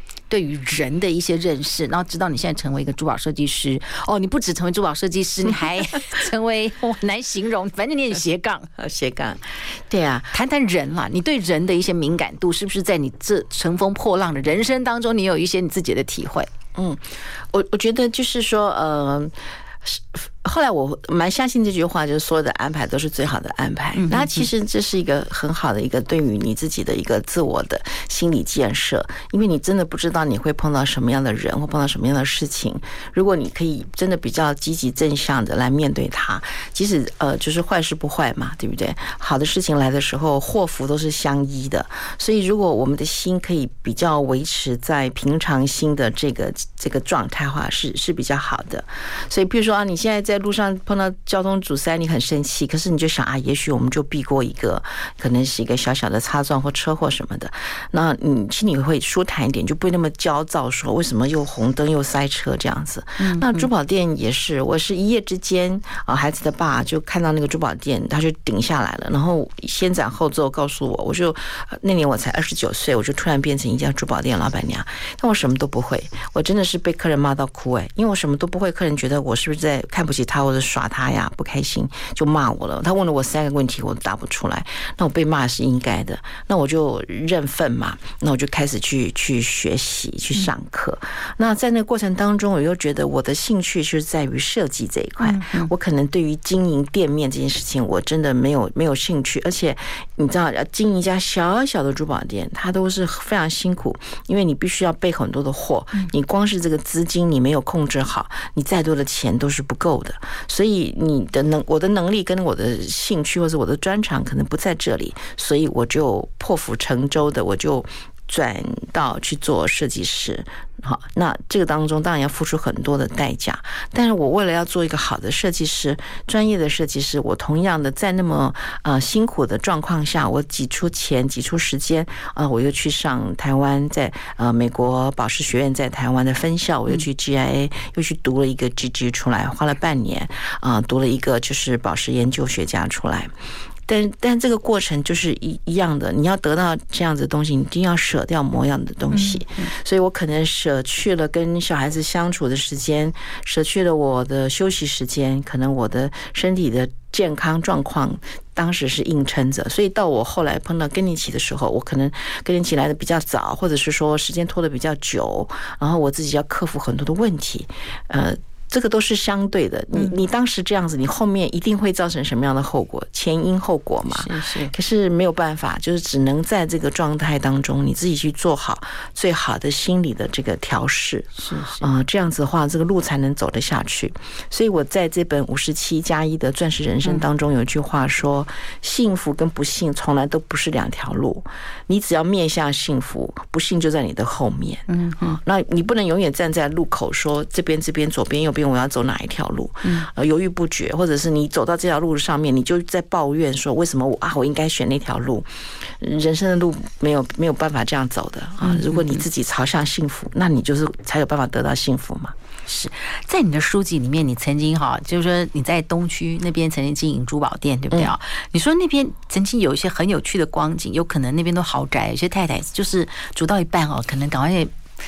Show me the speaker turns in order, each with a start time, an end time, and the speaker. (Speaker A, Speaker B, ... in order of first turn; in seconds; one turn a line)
Speaker A: 0.3-8.7
Speaker B: 8.8-10.3
Speaker A: 10.3-16.5
Speaker B: 16.8-143.3
Speaker A: 23.9-24.5
Speaker A: 63.2-63.7
Speaker A: 95.2-95.7
Speaker B: 143.9-205.5
Speaker A: 149.1-149.7
Speaker A: 174.1-174.7
Speaker A: 181.4-181.9
Speaker A: 194.9-195.4
Speaker B: 206.0-212.3
Speaker A: 208.6-209.2
Speaker A: 212.7-224.7